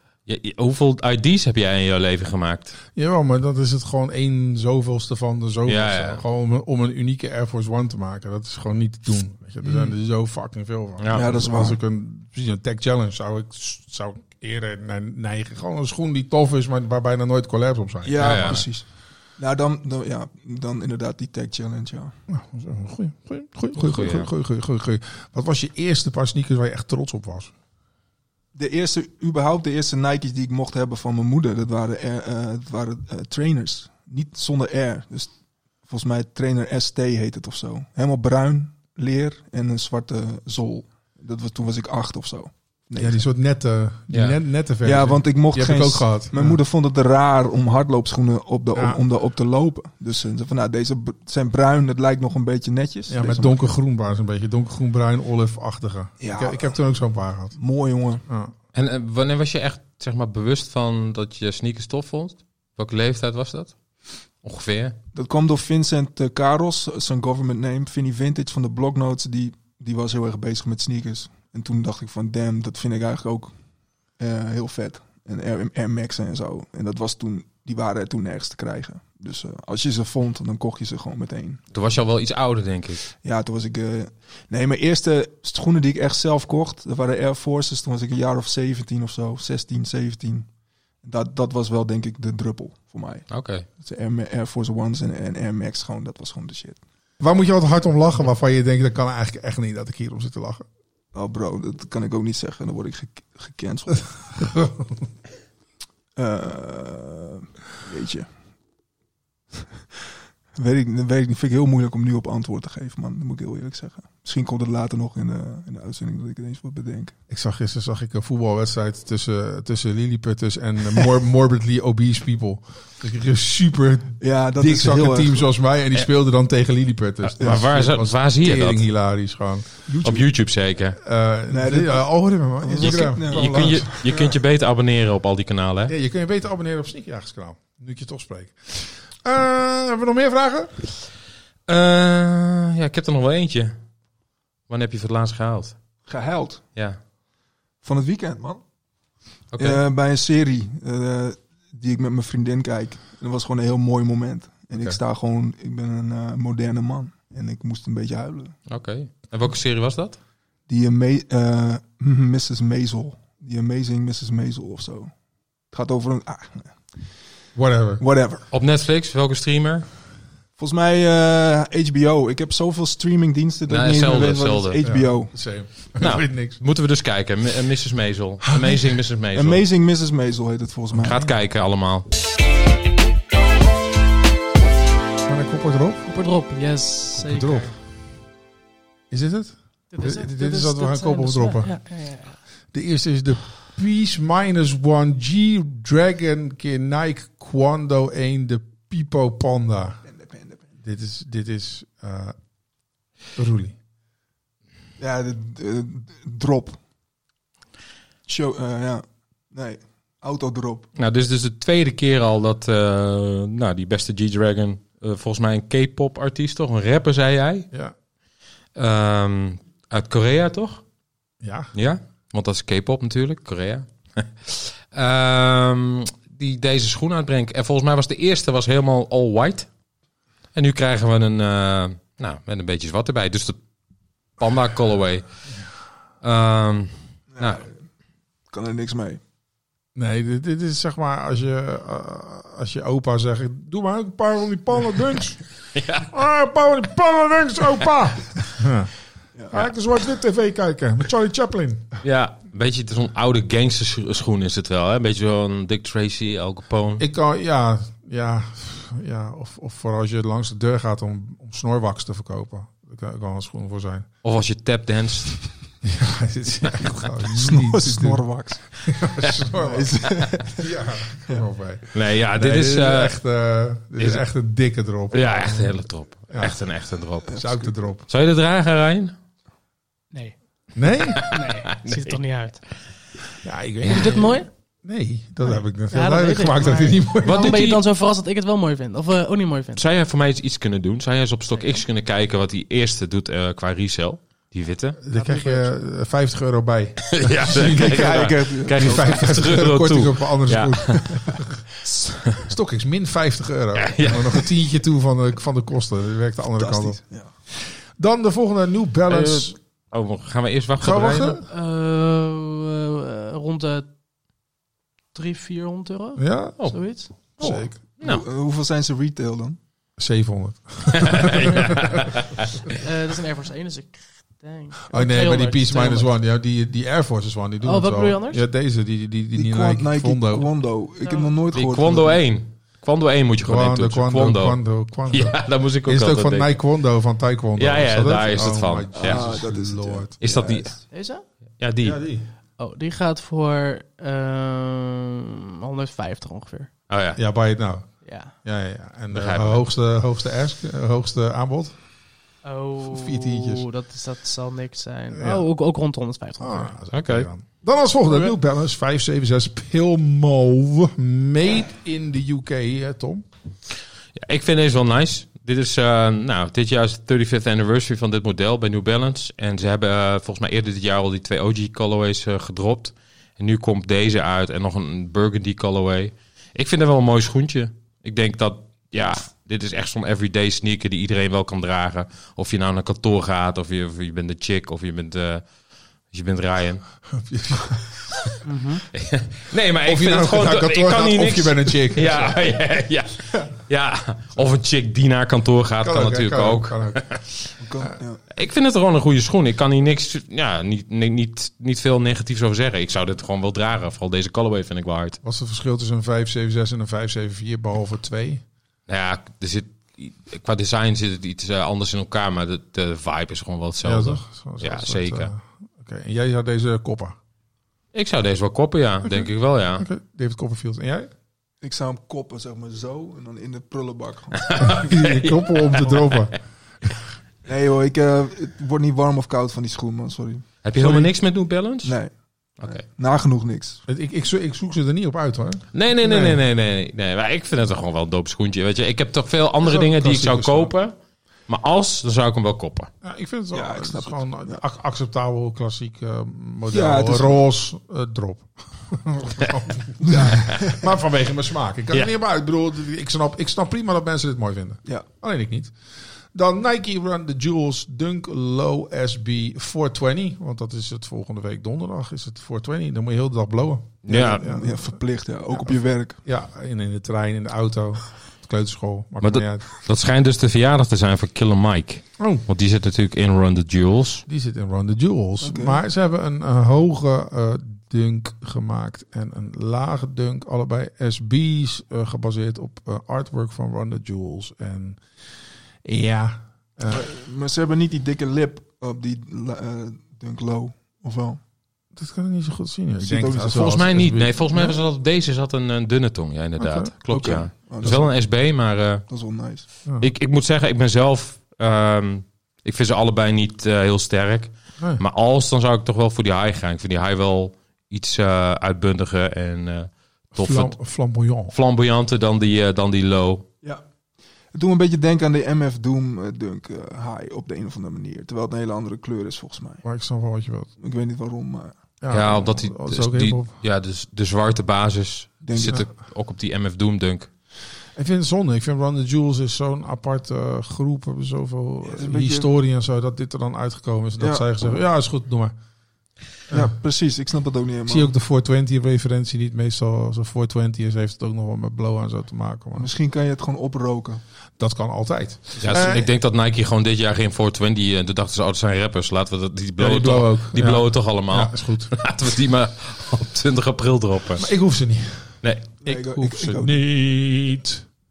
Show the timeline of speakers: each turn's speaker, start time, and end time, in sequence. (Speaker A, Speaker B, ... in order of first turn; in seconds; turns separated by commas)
Speaker A: 0.2-2.7, Speaker B: 2.9-18.6, Speaker A: 5.7-6.2, Speaker C: 9.6-9.9, Speaker A: 11.0-11.2, Speaker C: 11.1-11.8, Speaker C: 18.0-22.2, Speaker A: 18.2-18.6, Speaker B: 22.3-27.5, Speaker A: 23.8-24.3, Speaker C: 28.5-35.3, Speaker C: 35.9-43.2, Speaker B: 43.0-46.6, Speaker A: 44.1-44.4, Speaker C: 44.8-53.7, Speaker B: 48.7-49.0, Speaker B: 53.1-57.6, Speaker C: 56.2-56.8, Speaker C: 57.5-58.2, Speaker B: 58.3-58.5, Speaker A: 58.7-63.8, Speaker A: 64.4-65.0, Speaker C: 65.1-73.5, Speaker C: 74.2-81.6, Speaker A: 81.7-83.0, Speaker C: 83.1-90.5, Speaker C: 91.0-96.8, Speaker A: 93.3-93.7, Speaker B: 97.2-100.6, Speaker C: 101.1-104.0, Speaker B: 104.4-104.9, Speaker C: 106.2-108.3, Speaker C: 110.5-117.1, Speaker B: 117.3-129.8, Speaker C: 124.2-125.5, Speaker A: 127.2-128.8, Speaker C: 127.4-127.6, Speaker C: 129.9-130.2, Speaker A: 130.0-131.0, Speaker B: 131.0-134.0, Speaker C: 131.5-132.1, Speaker C: 132.6-134.3, Speaker A: 132.8-135.9, Speaker B: 135.9-140.8, Speaker A: 141.7-143.8, Speaker A: 144.7-145.8, Speaker C: 146.1-146.6, Speaker C: 147.8-148.6, Speaker A: 149.5-149.8, Speaker C: 149.6-158.5, Speaker A: 158.7-160.2, Speaker C: 160.7-165.1, Speaker C: 165.7-166.8, Speaker B: 167.6-168.0, Speaker C: 168.0-168.4, Speaker A: 168.5-169.8, Speaker C: 170.6-175.4, Speaker A: 173.7-174.8, Speaker B: 174.8-176.6, Speaker A: 176.0-179.6, Speaker C: 179.3-181.3, Speaker A: 180.9-182.0, Speaker B: 185.2-186.1, Speaker D: 186.1-187.7, Speaker B: 187.1-187.7, Speaker B: 189.1-191.8, Speaker D: 189.9-192.4, Speaker B: 192.7-200.0, Speaker C: 200.1-200.7, Speaker B: 200.8-202.3, Speaker B: 203.3-203.8, Speaker C: 205.0-206.8, Speaker C: 208.3-210.9, Speaker A: 210.9-217.7, Speaker A: 218.7-220.8, Speaker B: 221.4-221.7, Speaker A: 221.7-229.7, Speaker A: 230.5-233.6, Speaker A: 234.4-235.2, Speaker A: 236.2-237.6, Speaker C: 237.3-237.7, Speaker C: 238.5-239.2, Speaker B: 239.9-245.4, Speaker A: 245.7-246.1, Speaker B: 246.1-249.0, Speaker C: 249.3-249.6, Speaker B: 249.5-252.0, Speaker A: 252.0-257.0, Speaker B: 257.0-264.1, Speaker A: 264.2-265.4, Speaker B: 265.8-268.2, Speaker C: 267.3-268.7, Speaker B: 268.8-276.6, Speaker C: 269.5-270.7, Speaker A: 271.9-273.2, Speaker A: 274.0-274.2, Speaker A: 275.1-277.3, Speaker C: 277.3-277.7, Speaker B: 277.3-278.1, Speaker A: 278.1-279.1, Speaker B: 280.8-281.3, Speaker D: 281.1-282.6, Speaker A: 281.2-282.2, Speaker B: 283.4-287.6, Speaker A: 283.8-284.2, Speaker D: 283.9-284.5, Speaker D: 285.4-289.9, Speaker A: 287.2-287.8, Speaker A: 289.8-295.0, Speaker D: 291.6-291.8, Speaker B: 295.0-301.6, Speaker D: 295.1-295.7, Speaker A: 297.1-301.1, Speaker C: 297.8-299.4, Speaker B: 302.4-307.0, Speaker A: 303.7-304.5, Speaker C: 306.6-307.3, Speaker B: 307.5-309.6, Speaker A: 309.1-311.4, Speaker B: 310.8-311.4, Speaker D: 311.5-313.9, Speaker D: 315.1-317.7, Speaker B: 316.2-317.8, Speaker A: 316.6-318.2, Speaker C: 318.0-319.6, Speaker B: 320.0-322.1, Speaker A: 320.9-322.5, Speaker D: 322.7-326.1, Speaker B: 324.9-330.5, Speaker D: 327.6-328.4, Speaker C: 329.3-332.2, Speaker D: 331.0-331.3, Speaker A: 331.5-334.6, Speaker B: 333.4-340.2, Speaker A: 335.1-336.6, Speaker A: 337.6-339.3, Speaker C: 339.0-340.8, Speaker A: 340.2-340.8, Speaker D: 340.9-341.2, Speaker A: 341.6-342.0, Speaker B: 341.8-342.3, Speaker D: 342.6-346.7, Speaker A: 346.9-347.2, Speaker B: 347.1-351.7, Speaker D: 348.0-348.3, Speaker A: 349.1-349.6, Speaker D: 352.4-356.7, Speaker B: 352.8-353.6, Speaker B: 355.1-355.4, Speaker B: 356.4-363.2, Speaker A: 356.9-357.3, Speaker D: 358.1-358.3, Speaker A: 364.1-385.4, Speaker A: 386.1-386.8, Speaker B: 387.1-387.9, Speaker D: 388.4-388.8, Speaker A: 388.9-397.2, Speaker B: 389.8-392.4, Speaker B: 395.8-397.1, Speaker C: 397.6-398.2, Speaker A: 398.3-405.2, Speaker B: 405.2-408.4, Speaker A: 408.9-415.3, Speaker B: 413.8-417.1, Speaker A: 417.9-419.8, Speaker B: 419.8-421.1, Speaker C: 421.6-424.6, Speaker A: 424.4-426.2, Speaker B: 424.6-426.4, Speaker C: 427.4-431.1, Speaker A: 430.6-432.0, Speaker C: 431.8-433.8, Speaker A: 432.6-432.8, Speaker B: 433.9-436.4, Speaker A: 435.7-440.9, Speaker B: 439.6-440.7, Speaker A: 441.5-442.9, Speaker B: 443.0-455.7, Speaker C: 443.5-444.6, Speaker C: 446.7-447.4, Speaker C: 450.0-450.8, Speaker B: 456.3-464.9, Speaker A: 464.0-464.4, Speaker C: 464.1-466.2, Speaker B: 465.6-469.7, Speaker A: 469.2-474.2, Speaker B: 472.2-472.4, Speaker B: 474.3-485.0, Speaker C: 475.4-475.8, Speaker B: 485.8-487.0, Speaker C: 486.9-491.4, Speaker B: 491.9-494.7, Speaker C: 493.0-493.7, Speaker A: 493.5-499.0, Speaker B: 496.6-496.9, Speaker C: 497.1-498.1, Speaker C: 499.1-499.6, Speaker A: 500.0-510.8, Speaker B: 510.4-511.5, Speaker A: 511.5-513.5, Speaker C: 514.5-519.8, Speaker B: 519.8-520.7, Speaker C: 520.8-521.7, Speaker B: 522.0-523.5, Speaker A: 522.1-527.3, Speaker C: 525.4-525.8, Speaker B: 528.0-535.5, Speaker C: 531.8-532.5, Speaker C: 534.2-534.5, Speaker C: 536.5-538.1, Speaker B: 537.9-542.9, Speaker C: 542.7-544.2, Speaker B: 544.6-546.1, Speaker C: 545.6-546.0, Speaker A: 545.6-554.5, Speaker B: 549.8-551.9, Speaker B: 554.4-557.8, Speaker C: 555.8-556.7